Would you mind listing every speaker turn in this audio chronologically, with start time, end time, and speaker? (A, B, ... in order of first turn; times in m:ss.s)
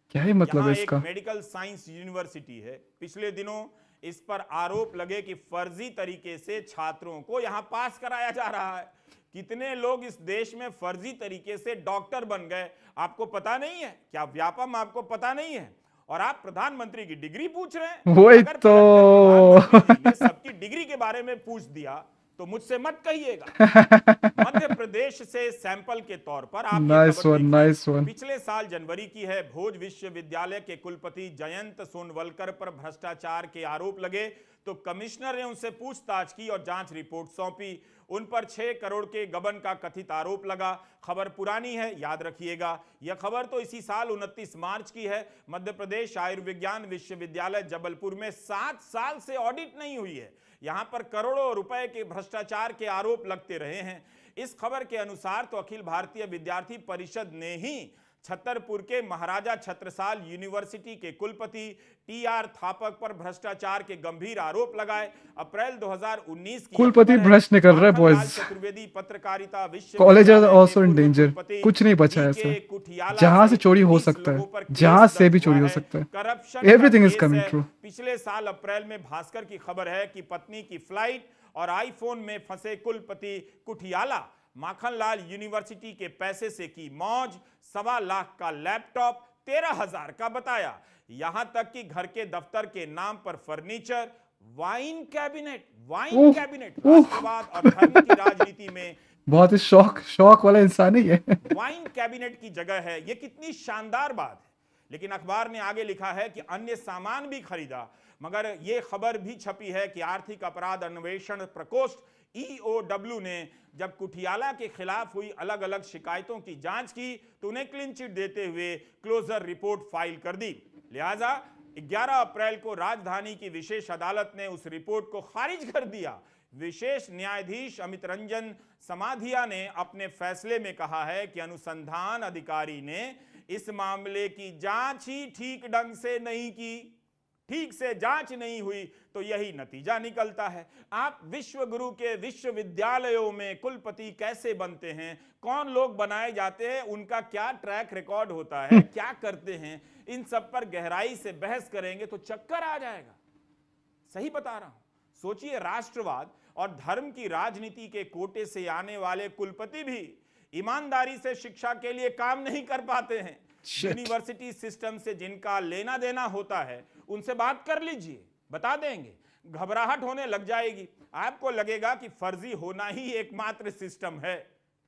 0:00.1-0:01.0 A
0:00.5-0:23.6 B
0:18.1-0:20.2 A
0:23.6-0:24.5 A
0:24.4-1:39.0 B
0:26.7-0:28.1 A
1:06.8-1:08.5 A
1:10.0-1:12.6 A
1:13.1-1:16.1 A
1:16.6-1:17.7 A
1:36.1-1:38.2 A
1:39.3-1:41.4 A
1:41.4-2:16.9 B
2:17.5-2:33.2 B
2:34.1-2:54.4 B
2:43.7-2:44.1 A